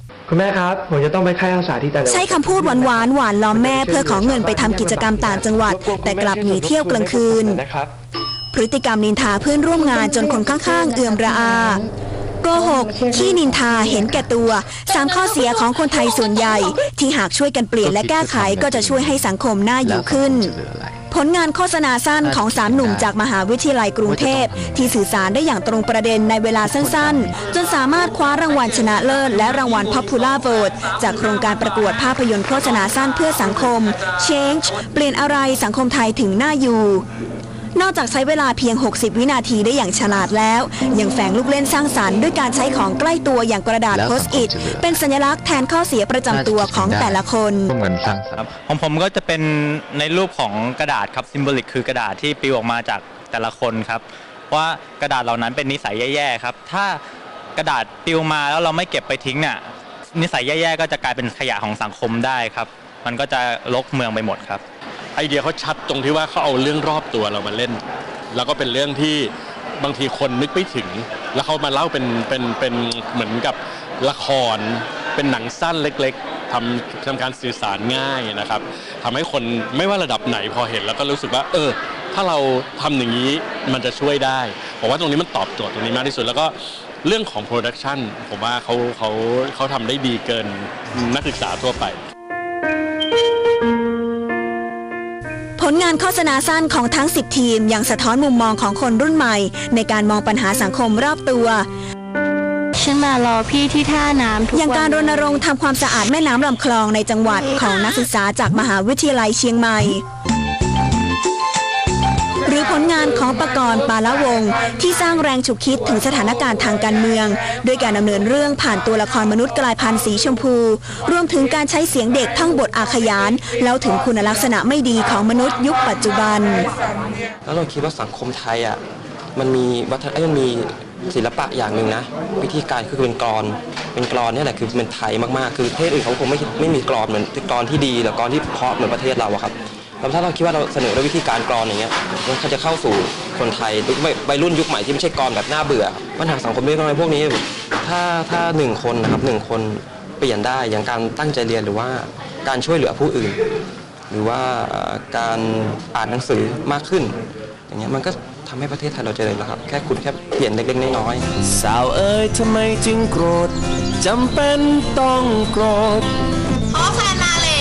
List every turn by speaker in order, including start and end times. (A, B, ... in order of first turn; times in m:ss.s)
0:00.3-0:07.9 A
0:02.0-0:07.6 B
0:08.5-0:11.8 B
0:12.4-0:20.5 B
0:17.8-0:19.3 C
0:19.8-0:21.0 C
0:21.1-0:37.0 B
0:22.2-0:23.1 C
0:24.0-0:25.0 C
0:26.6-0:27.3 C
0:37.8-0:47.7 B
0:43.9-0:45.0 C
0:46.3-0:48.5 C
0:48.4-0:57.0 D
0:57.6-1:04.6 D
1:05.2-1:07.8 E
1:08.3-1:09.3 E
1:09.8-1:26.5 E
1:27.0-1:32.0 E
1:35.6-1:41.6 B
1:42.8-1:45.3 F
1:44.5-1:50.0 B
1:52.4-2:06.7 B
2:07.4-2:08.8 G
2:09.3-2:33.4 G
2:34.1-2:37.2 G
2:37.7-2:41.3 G
2:41.4-2:46.1 H